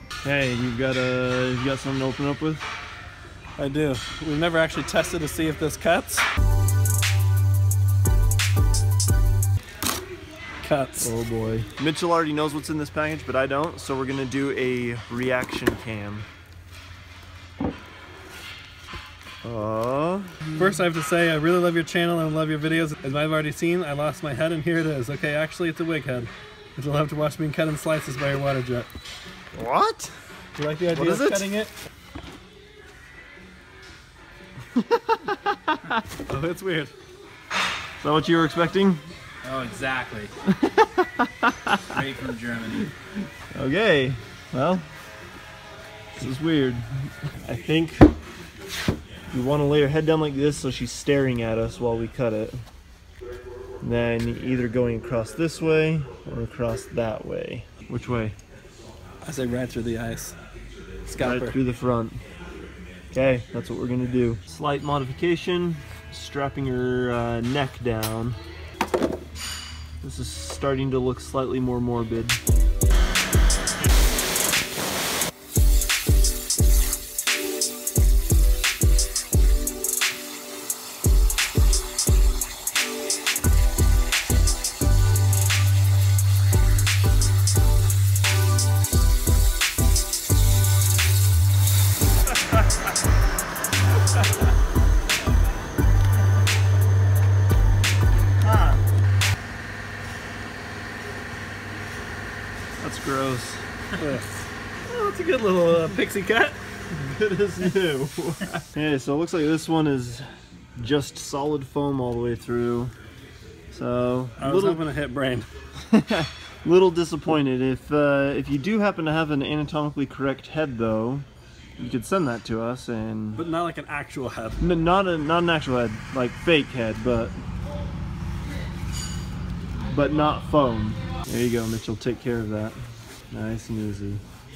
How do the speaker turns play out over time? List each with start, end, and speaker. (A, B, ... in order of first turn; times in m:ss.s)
0:00.2-0:02.6 A
0:03.6-0:06.3 B
0:10.6-0:11.1 B
0:11.0-0:16.3 A
0:19.4-0:20.6 A
0:20.6-0:28.9 B
0:29.6-0:30.1 A
0:30.6-0:31.7 B
0:30.9-0:31.5 A
0:34.8-0:36.0 A
0:36.3-0:36.9 B
0:38.0-0:39.0 A
0:39.4-0:40.3 C
0:40.5-0:42.0 A
0:41.9-0:42.9 C
0:43.6-0:44.9 A
0:46.2-0:48.1 A
0:49.3-0:52.6 A
0:53.8-0:58.4 A
0:59.2-1:00.4 B
1:01.0-1:01.6 B
1:01.2-1:02.2 A
1:03.1-1:08.4 A
1:10.0-1:12.4 A
1:38.4-1:38.8 A
1:42.8-1:43.6 A
1:44.0-1:44.2 B
1:44.9-1:46.6 B
1:46.9-1:50.3 A
1:50.8-1:52.9 A
1:53.7-1:54.8 A
1:54.4-1:55.5 B
1:55.9-2:01.3 A
2:01.8-2:03.4 A
2:03.4-2:04.6 B
2:04.6-2:07.4 A
2:09.9-2:12.8 A
2:13.3-2:14.2 A